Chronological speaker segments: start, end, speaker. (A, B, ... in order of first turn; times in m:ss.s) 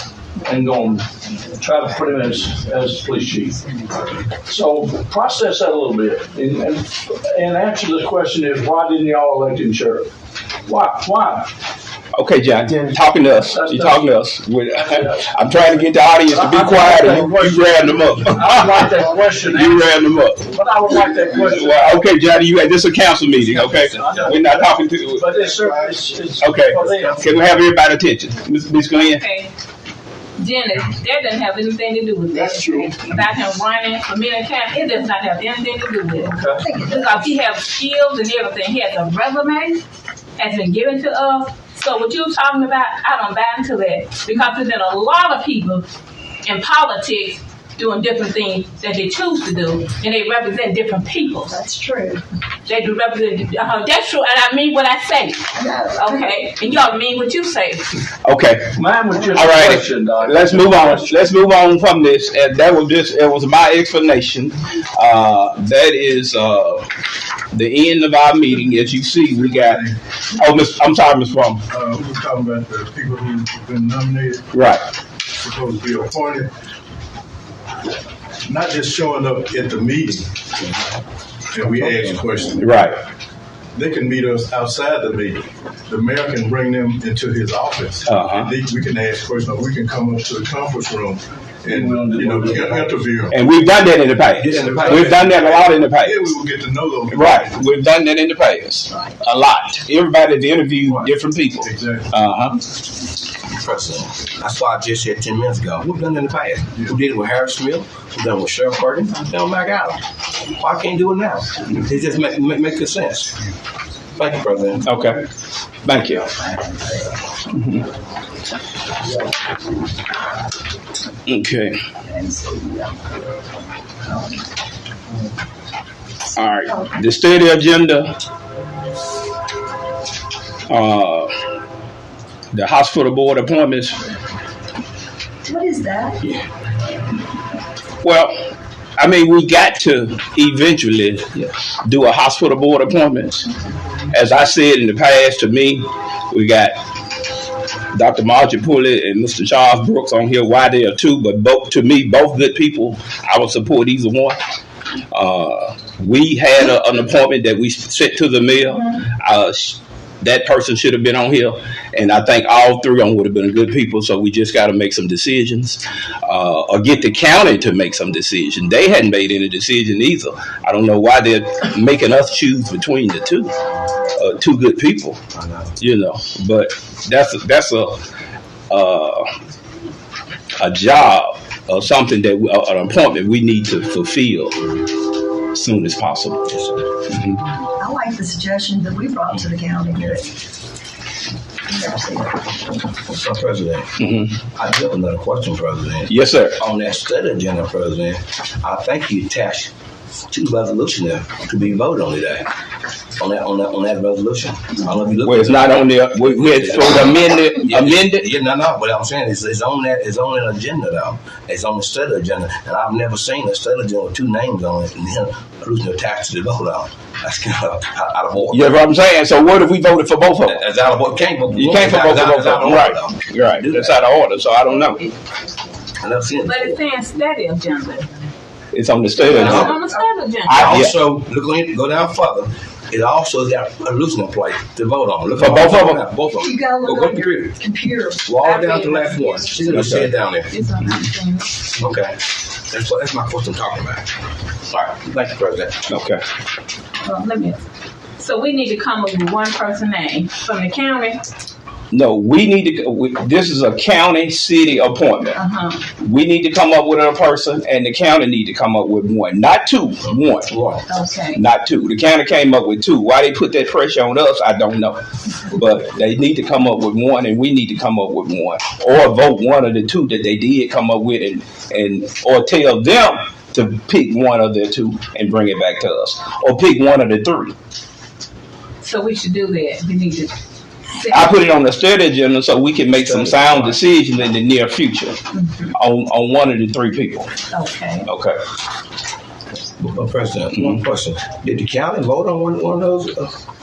0:00.4-0:03.6 A
0:04.4-0:10.1 A
0:10.7-0:11.5 A
0:12.1-0:20.5 B
0:13.4-0:14.1 A
0:14.7-0:15.4 A
0:16.3-0:22.1 A
0:18.1-0:19.0 C
0:21.4-0:25.4 B
0:23.3-0:24.4 D
0:23.9-0:24.6 A
0:25.2-0:27.3 A
0:25.4-0:26.1 C
0:26.4-0:29.2 B
0:26.7-0:27.4 C
0:29.0-0:29.5 E
0:30.4-0:36.3 E
0:32.3-0:32.9 C
0:36.2-0:36.8 A
0:36.6-0:37.0 C
0:36.9-0:39.8 E
0:40.4-0:45.9 E
0:46.4-0:51.6 E
0:51.6-0:52.0 F
0:52.7-0:57.8 E
0:55.6-0:55.9 C
0:55.7-0:56.2 F
0:58.2-0:58.7 B
0:58.7-1:01.2 A
0:59.3-1:06.9 B
1:07.5-1:11.6 B
1:09.4-1:10.0 C
1:11.7-1:14.5 C
1:14.5-1:14.8 B
1:15.4-1:16.5 C
1:18.4-1:20.3 C
1:21.5-1:22.6 C
1:22.6-1:23.0 B
1:23.7-1:33.4 C
1:28.1-1:28.5 B
1:31.6-1:33.0 A
1:33.3-1:36.3 B
1:34.3-1:35.8 D
1:34.5-1:35.2 C
1:36.0-1:37.6 C
1:37.1-1:42.6 B
1:40.9-1:41.1 D
1:41.6-1:42.1 C
1:43.5-1:50.0 D
1:50.5-1:53.4 D
1:54.2-1:54.9 D
1:54.8-1:55.3 B
1:55.8-1:56.3 B
1:56.5-1:56.8 F
1:57.5-1:57.8 B
2:01.3-2:01.8 B
2:02.1-2:02.9 F
2:02.3-2:02.7 C
2:06.4-2:08.2 B
2:10.7-2:11.3 B
2:12.5-2:14.1 B
2:15.5-2:16.1 F
2:15.9-2:16.2 C
2:18.0-2:18.3 B
2:19.0-2:23.5 B
2:24.1-2:26.8 B
2:27.9-2:34.4 B
2:35.1-2:53.5 B
2:54.2-2:55.2 B
2:55.3-2:55.8 D
2:55.8-2:58.0 B
2:58.7-2:59.3 B
3:00.6-3:04.6 B
3:05.5-3:06.5 B
3:06.5-3:06.9 D
3:07.1-3:07.4 B
3:07.8-3:10.1 F
3:09.3-3:10.2 D
3:11.7-3:12.4 F
3:13.1-3:13.9 D
3:14.0-3:14.4 B
3:14.6-3:19.7 D
3:16.1-3:16.6 B
3:20.3-3:22.5 D
3:23.2-3:38.9 D
3:25.2-3:28.3 B
3:38.4-3:40.6 B
3:40.4-3:44.0 D
3:41.5-3:45.0 B
3:46.0-3:46.8 D
3:46.5-3:48.0 E
3:48.7-3:49.9 B
3:49.2-3:49.8 D
3:49.8-3:50.5 E
3:50.5-3:51.0 B
3:50.5-3:57.6 D
3:55.4-3:56.0 B
3:56.4-3:58.2 F
3:58.2-4:00.5 D
3:58.5-3:59.4 E
3:59.4-4:00.1 B
4:00.5-4:01.5 E
4:01.8-4:04.1 D
4:04.7-4:05.9 D
4:05.9-4:06.2 B
4:07.0-4:07.6 E
4:08.2-4:11.2 E
4:11.9-4:20.5 B
4:15.5-4:15.8 E
4:20.1-4:20.9 D
4:20.9-4:21.4 E
4:21.4-4:37.5 B
4:38.8-4:40.3 E
4:41.1-4:45.2 B
4:43.0-4:43.8 D
4:45.7-4:47.3 B
4:47.5-4:48.1 E
4:48.1-4:48.4 B
4:49.8-4:53.4 D